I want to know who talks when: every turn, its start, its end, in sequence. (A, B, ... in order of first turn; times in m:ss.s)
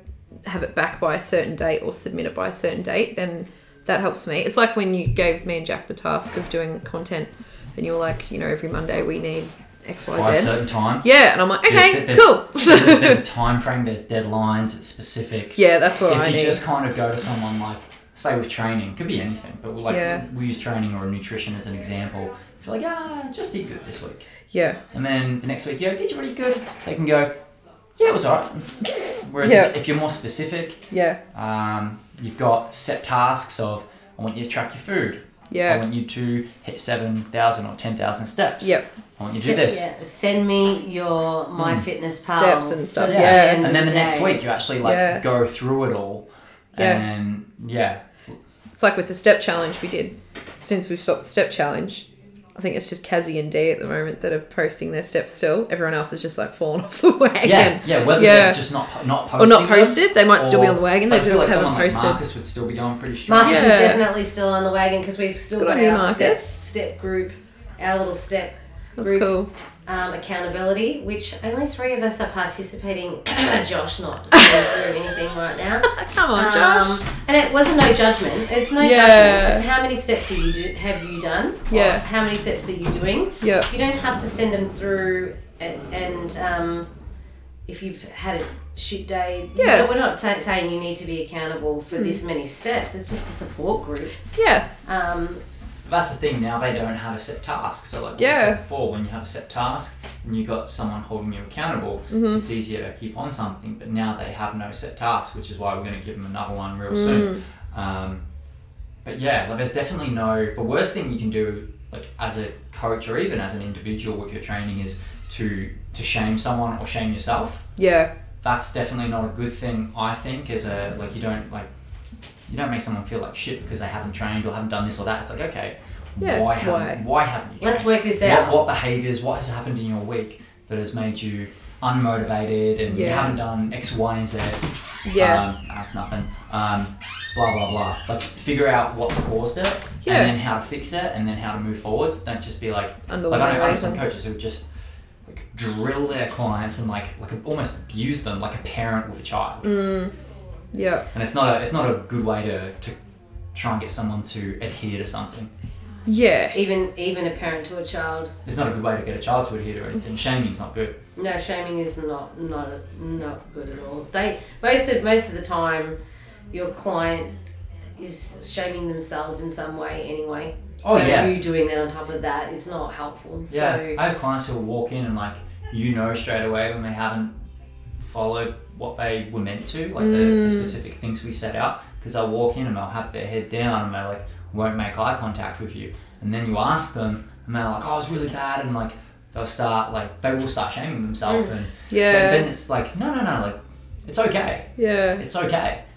0:00.4-0:13.2 A
0:10.1-0:11.1 B
0:11.6-0:24.2 B
0:15.6-0:16.6 A
0:19.9-0:20.2 A
0:24.5-0:24.8 A
0:24.9-0:27.3 B
0:28.0-0:39.9 B
0:29.4-0:29.7 A
0:30.9-0:31.2 A
0:35.5-0:35.8 A
0:38.6-0:38.9 A
0:39.2-0:44.4 C
0:41.6-0:41.9 B
0:42.2-0:43.6 A
0:43.0-0:48.4 B
0:44.8-0:45.2 A
0:46.8-0:47.0 A
0:48.8-0:58.6 A
0:57.4-1:03.9 B
0:59.4-1:02.2 A
1:03.3-1:09.3 C
1:03.4-1:04.0 A
1:05.6-1:06.5 A
1:09.0-1:09.5 A
1:09.9-1:26.9 C
1:15.9-1:17.0 A
1:18.8-1:19.6 A
1:21.7-1:22.0 A
1:23.4-1:23.7 A
1:27.7-1:34.2 C
1:29.6-1:29.9 A
1:31.9-1:32.2 A
1:34.4-1:34.7 A
1:34.8-1:35.4 C
1:35.8-1:48.2 B
1:38.2-1:38.6 A
1:42.1-1:42.4 A
1:46.9-1:47.4 A
1:49.0-1:57.7 B
1:57.8-1:58.1 A
1:58.4-2:01.7 B
2:02.5-2:24.7 B
2:06.2-2:07.0 A
2:07.6-2:08.6 C
2:12.9-2:13.4 A
2:15.0-2:15.4 A
2:20.0-2:20.3 A
2:23.1-2:24.0 A
2:25.2-2:29.7 B
2:29.6-2:30.1 A
2:30.7-2:31.1 A
2:31.1-2:33.0 B
2:33.5-2:35.5 B
2:36.0-2:36.6 A
2:36.5-2:38.3 C
2:38.4-2:41.0 B
2:41.2-2:46.0 C
2:46.5-2:47.4 C
2:48.0-2:54.0 C
2:50.8-2:51.4 B
2:53.5-2:57.4 B
2:58.0-3:15.8 B
3:00.0-3:00.8 A
3:11.3-3:11.5 C
3:11.9-3:12.5 A
3:14.8-3:15.2 A